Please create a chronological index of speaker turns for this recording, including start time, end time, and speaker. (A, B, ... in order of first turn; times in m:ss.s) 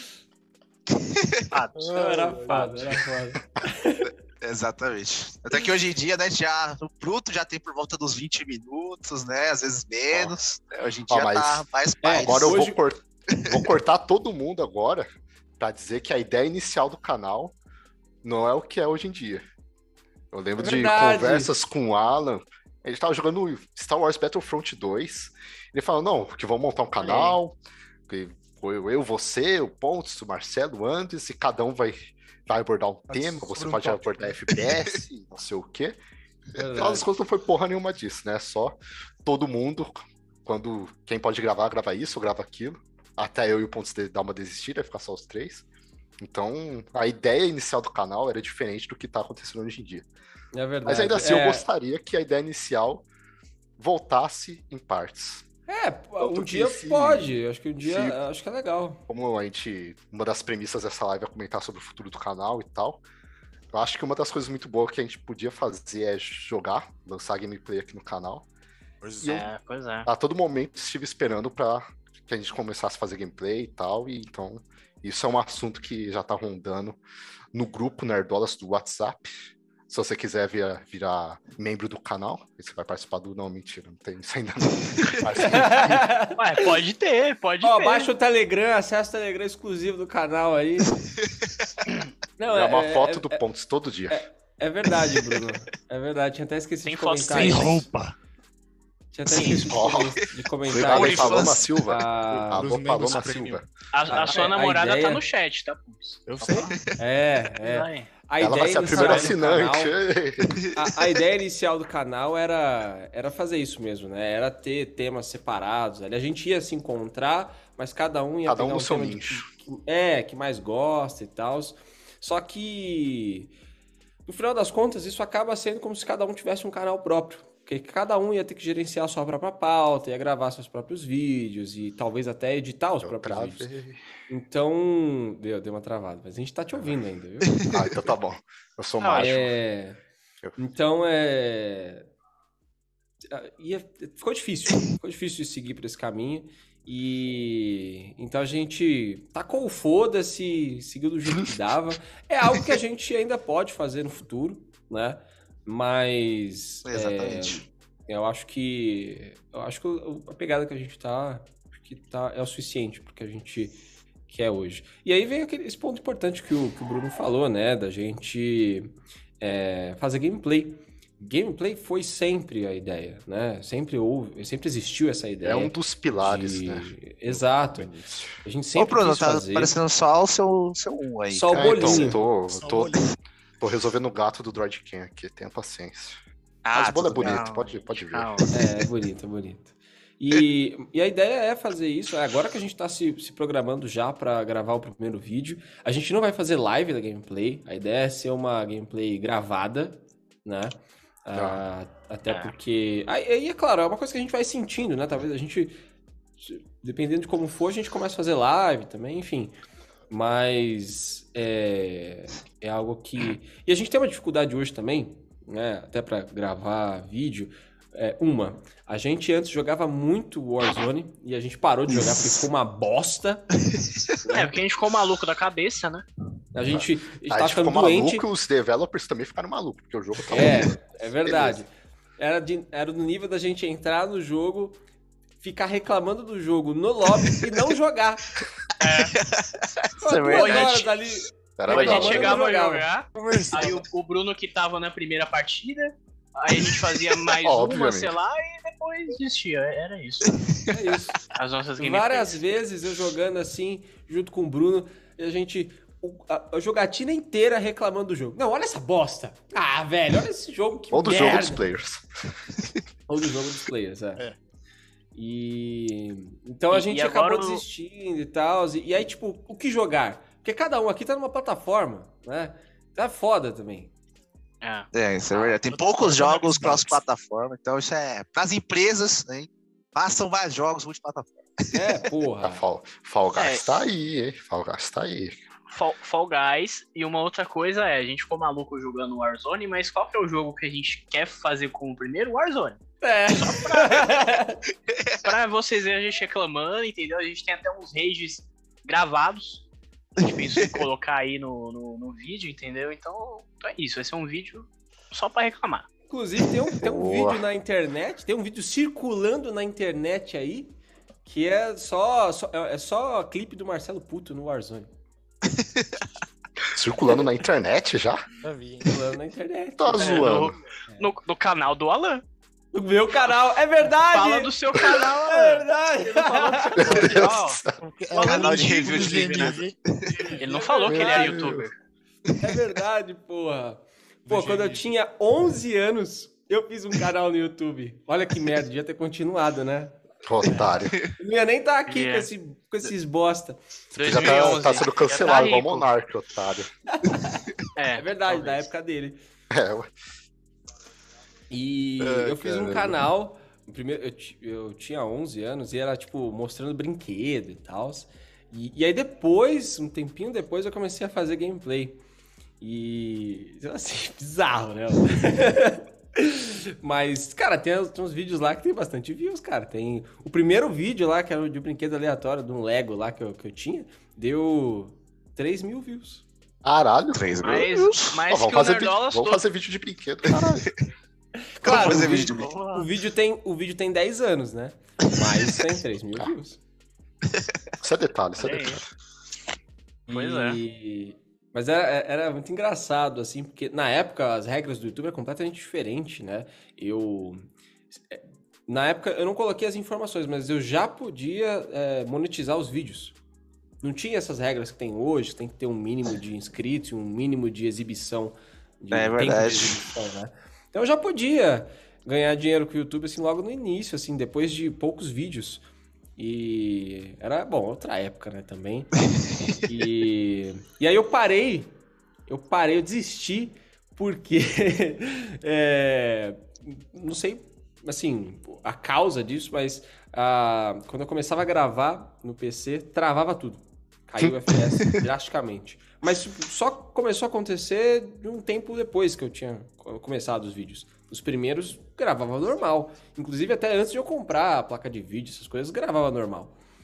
0:01.0-0:01.4 A
0:01.5-0:03.0 B
0:01.8-0:02.7 C
0:01.9-0:04.1 D
0:04.4-0:12.6 A
0:11.1-0:15.1 E
0:12.0-0:12.8 D
0:15.6-0:17.6 E
0:18.2-0:19.4 E
0:20.3-0:27.6 E
0:20.6-0:21.5 D
0:27.0-0:27.4 B
0:28.1-0:36.0 E
0:33.1-0:34.4 C
0:36.6-0:37.1 D
0:36.7-0:45.6 E
0:46.2-0:50.1 E
0:50.5-0:51.6 D
0:50.9-0:53.1 E
0:53.8-0:55.4 E
0:55.7-0:59.0 D
0:56.2-0:58.2 E
0:59.1-1:03.0 E
1:03.7-1:08.4 E
1:09.0-1:09.4 C
1:09.2-1:09.5 E
1:09.2-1:10.1 B
1:10.1-1:17.0 E
1:17.5-1:19.3 E
1:19.9-1:26.1 E
1:25.4-1:26.7 D
1:26.4-1:28.1 B
1:27.6-1:31.0 D
1:31.0-1:31.5 A
1:32.4-1:33.4 D
1:32.5-1:34.2 E
1:34.1-1:37.9 D
1:36.8-1:37.8 B
1:37.3-1:38.2 C
1:39.1-1:42.7 D
1:39.3-1:39.8 B
1:39.7-1:43.6 E
1:40.7-1:41.9 A
1:42.3-1:43.6 C
1:43.9-1:46.8 B
1:44.1-1:45.2 D
1:46.3-1:46.7 C
1:47.0-1:50.0 D
1:47.6-1:48.1 B
1:48.4-1:50.6 E
1:50.5-1:51.0 A
1:50.8-2:03.5 D
1:58.5-1:59.5 E
2:04.3-2:13.7 D
2:13.0-2:14.0 E
2:14.3-2:17.6 D
2:17.7-2:19.6 E
2:19.0-2:19.4 B
2:19.2-2:20.0 D
2:20.6-2:22.1 D
2:23.3-2:57.9 D
2:36.8-2:37.6 A
2:55.4-2:58.4 E
2:58.4-2:59.8 D
2:58.8-3:02.0 A
3:01.3-3:02.2 D
3:01.5-3:03.0 E
3:02.3-3:03.1 C
3:03.6-3:06.2 E
3:06.6-3:07.4 A
3:06.7-3:08.5 E
3:07.2-3:08.5 B
3:08.5-3:25.8 D
3:21.4-3:21.6 E
3:22.3-3:22.5 B
3:26.4-3:29.5 D
3:30.1-3:43.5 D
3:41.9-3:42.4 A
3:44.3-3:44.5 D
3:44.3-3:46.0 B
3:46.5-3:48.3 D
3:46.7-3:51.6 E
3:50.3-3:54.8 D
3:55.4-3:58.3 D
3:58.8-3:59.2 B
3:59.0-4:00.9 A
4:00.0-4:02.9 D
4:00.3-4:00.8 B
4:01.6-4:02.4 E
4:01.7-4:10.4 B
4:03.1-4:03.8 C
4:06.5-4:07.2 A
4:07.4-4:08.2 E
4:10.5-4:11.0 A
4:10.7-4:11.2 D
4:11.3-4:12.5 B
4:11.8-4:21.6 D
4:20.9-4:22.1 E
4:23.1-4:24.2 D
4:25.2-4:33.9 D
4:26.7-4:27.6 B
4:34.6-4:35.5 B
4:34.9-4:41.8 A
4:35.7-4:37.0 C
4:41.7-4:42.6 D
4:42.4-4:45.4 E
4:43.3-4:43.7 B
4:45.7-4:54.2 B
4:53.0-4:54.6 D
4:55.2-4:59.7 B
5:00.2-5:05.9 B
5:00.6-5:00.8 A
5:06.1-5:10.7 D
5:06.8-5:07.4 E
5:11.2-5:14.9 D
5:15.5-5:15.9 A
5:16.7-5:18.2 E
5:18.4-5:18.9 C
5:18.9-5:20.4 D
5:19.8-5:20.6 E
5:20.0-5:22.2 B
5:22.7-5:27.1 D
5:24.1-5:29.6 B
5:26.8-5:27.8 E
5:27.8-5:30.4 C
5:28.2-5:30.4 A
5:30.3-5:31.7 B
5:30.4-5:31.6 D
5:30.9-5:31.7 E
5:32.4-5:40.0 D
5:34.3-5:34.9 C
5:40.2-5:41.0 E
5:40.5-5:40.7 B
5:41.2-5:43.6 D
5:41.9-5:42.3 B
5:44.0-5:45.9 B
5:44.0-5:46.7 E
5:46.9-5:47.4 D
5:47.8-5:48.7 B
5:48.0-5:49.2 D
5:49.5-5:49.9 E
5:51.5-6:02.0 D
5:52.0-5:53.0 E
6:02.6-6:16.2 D
6:16.6-6:17.6 E
6:17.1-6:18.2 A
6:17.4-6:19.4 B
6:18.3-6:20.7 E
6:20.3-6:20.6 A
6:21.5-6:26.6 D
6:21.6-6:22.6 A
6:21.7-6:22.9 B
6:27.8-6:28.8 E
6:28.4-6:28.8 B
6:30.1-6:43.2 D
6:30.1-6:30.6 B
6:43.8-6:55.6 D
6:48.9-6:49.9 A
6:56.2-6:58.9 D
6:59.6-7:01.8 D
7:02.3-7:26.6 D